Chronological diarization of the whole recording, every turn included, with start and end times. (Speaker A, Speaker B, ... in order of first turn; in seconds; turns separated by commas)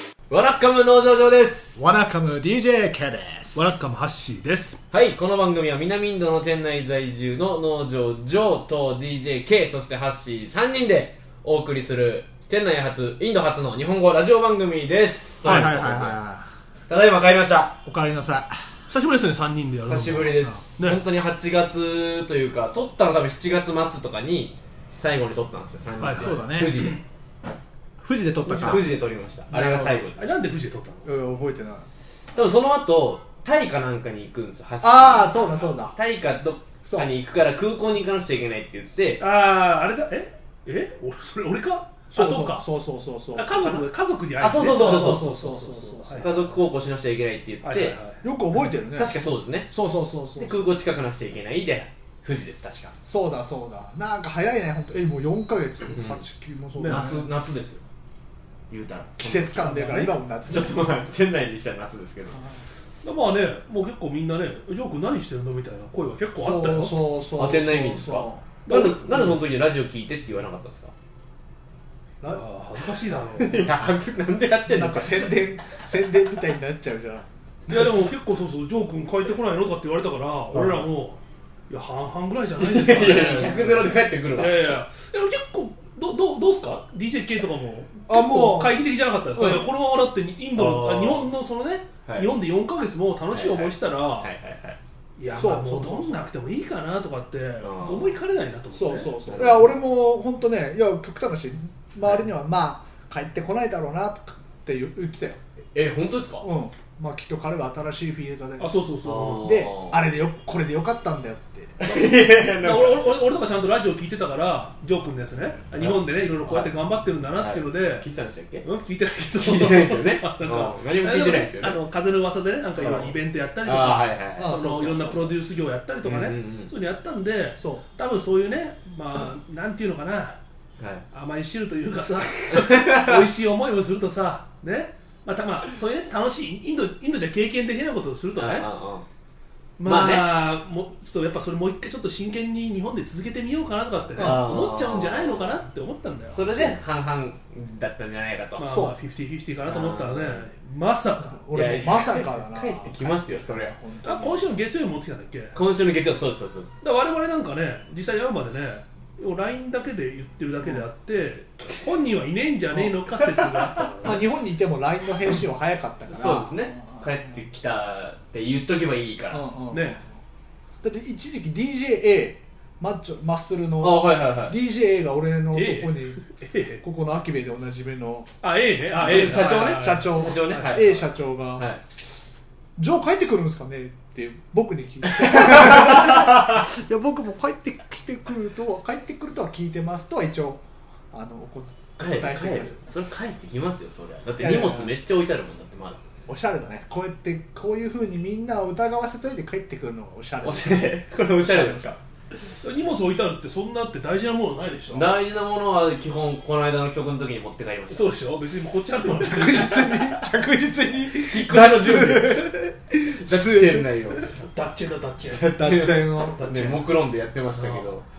Speaker A: 0.3-1.9, Speaker B: 1.8-3.8, Speaker C: 3.5-4.8, Speaker A: 4.9-16.2, Speaker C: 15.4-15.8, Speaker B: 15.4-16.5, Speaker A: 16.9-17.8, Speaker B: 17.9-18.8, Speaker C: 18.9-21.0, Speaker A: 19.9-27.0, Speaker B: 20.1-20.6, Speaker C: 26.0-27.0, Speaker B: 26.1-26.8, Speaker B: 28.0-28.9, Speaker A: 28.4-30.3, Speaker B: 29.5-30.0, Speaker C: 30.2-31.1, Speaker B: 31.1-31.9, Speaker A: 32.4-39.2, Speaker B: 34.8-36.0, Speaker C: 39.2-42.7, Speaker B: 42.1-43.7, Speaker C: 43.4-46.4, Speaker A: 44.4-45.3, Speaker B: 44.6-46.5, Speaker A: 46.2-48.0, Speaker C: 47.6-48.2, Speaker B: 48.2-49.2, Speaker A: 48.9-49.7, Speaker B: 49.7-50.6, Speaker A: 50.4-53.0, Speaker B: 53.0-57.3, Speaker A: 56.0-56.2, Speaker C: 56.8-57.1, Speaker A: 56.8-57.8, Speaker A: 58.7-62.4, Speaker B: 59.2-60.8, Speaker C: 59.7-60.1, Speaker C: 63.0-67.2, Speaker B: 66.4-68.5, Speaker A: 67.4-70.9, Speaker C: 68.7-69.4, Speaker C: 72.2-73.7, Speaker A: 73.4-75.4, Speaker B: 74.5-77.9, Speaker C: 77.7-94.3, Speaker A: 80.5-80.9, Speaker A: 82.6-84.7, Speaker B: 88.1-89.7, Speaker A: 90.5-91.3, Speaker A: 92.0-92.3, Speaker A: 93.3-94.8, Speaker C: 95.2-99.5, Speaker B: 95.3-96.3, Speaker A: 97.6-98.2, Speaker B: 98.7-105.4, Speaker A: 99.2-99.7, Speaker A: 105.8-106.5, Speaker B: 106.4-108.7, Speaker C: 108.6-109.6, Speaker A: 109.0-110.1, Speaker B: 109.4-111.8, Speaker A: 111.8-113.1, Speaker C: 111.8-118.1, Speaker A: 115.8-116.7, Speaker A: 117.4-118.7, Speaker C: 118.6-130.4, Speaker A: 119.4-121.8, Speaker B: 122.8-123.1, Speaker A: 123.6-124.6, Speaker B: 124.4-125.4, Speaker A: 126.0-126.7, Speaker A: 130.8-131.1, Speaker C: 131.1-138.7, Speaker A: 132.5-133.2, Speaker A: 138.4-139.1, Speaker C: 139.8-146.8, Speaker A: 139.8-140.4, Speaker B: 144.2-144.5, Speaker A: 144.2-145.6, Speaker A: 146.3-148.7, Speaker C: 148.6-151.4, Speaker B: 148.7-149.0, Speaker A: 149.7-150.5, Speaker B: 151.2-154.6, Speaker A: 151.5-153.8, Speaker C: 154.0-155.6, Speaker A: 155.5-156.7, Speaker C: 156.8-164.3, Speaker B: 162.7-163.0, Speaker B: 164.0-167.1, Speaker A: 166.1-169.5, Speaker B: 169.3-170.1, Speaker C: 169.7-170.0, Speaker B: 170.8-176.2, Speaker A: 173.8-174.6, Speaker C: 175.5-176.8, Speaker B: 176.8-178.3, Speaker C: 178.4-180.9, Speaker B: 178.9-181.7, Speaker A: 179.0-181.1, Speaker A: 181.6-181.8, Speaker B: 182.8-192.8, Speaker A: 185.2-186.2, Speaker A: 192.0-196.0, Speaker B: 194.4-194.9, Speaker B: 196.3-201.9, Speaker A: 200.4-202.0, Speaker C: 202.6-205.1, Speaker A: 204.9-208.1, Speaker C: 207.9-210.2, Speaker B: 209.1-214.3, Speaker A: 211.2-212.6, Speaker A: 213.2-214.3, Speaker C: 214.4-216.9, Speaker A: 215.3-218.1, Speaker B: 215.4-216.5, Speaker C: 217.6-217.9